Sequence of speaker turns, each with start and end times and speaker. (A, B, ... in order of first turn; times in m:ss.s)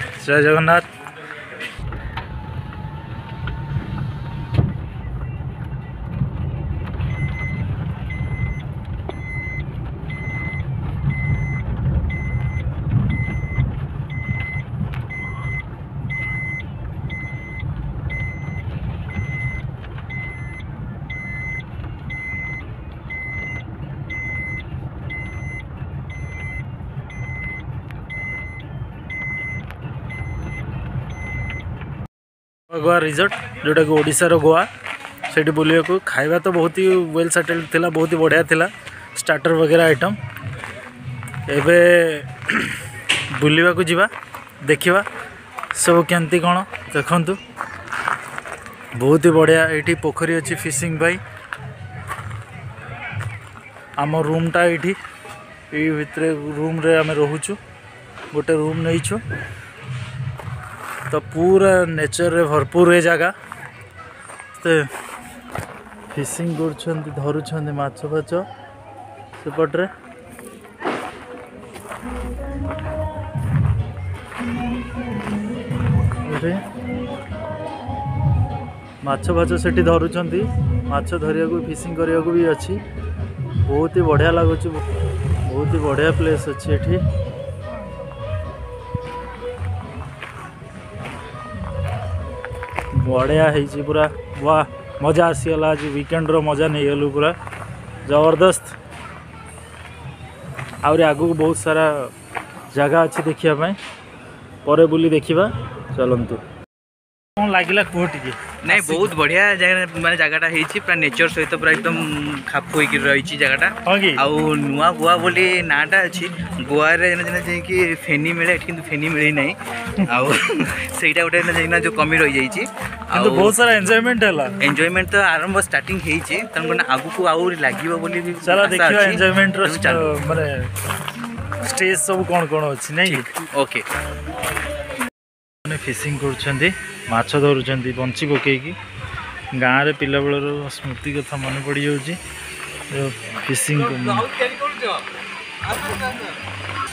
0:00.2-0:00.8 A
0:32.7-0:34.7 A
0:35.3-0:40.2 A
0:41.5-0:44.1 A
0:44.6-0:45.0 A
0:45.7-0:47.4 A
0:49.0-0:51.2 A
0:54.0-0:55.0 A
0:55.7-0:57.6 A
0:58.3-0:59.2 A
1:01.1-1:03.3 A
1:04.5-1:04.9 A
1:06.1-1:08.4 A
1:09.4-1:09.9 A
1:16.2-1:16.6 A
1:19.0-1:22.8 A
1:23.6-1:24.8 A
1:25.4-1:27.0 A
1:32.9-1:37.4 A
1:38.0-1:38.7 A
1:40.8-1:42.1 A
1:42.7-1:43.8 A
1:44.6-1:46.4 A
1:47.4-1:49.1 A
1:48.6-2:03.6 B
1:53.8-1:54.2 A
2:03.1-2:04.5 A
2:04.6-2:10.1 B
2:08.4-2:10.7 A
2:11.6-2:13.3 A
2:13.0-2:13.8 B
2:15.6-2:18.8 A
2:19.6-2:22.2 A
2:22.9-2:24.2 A
2:23.8-2:25.0 B
2:25.7-2:26.3 B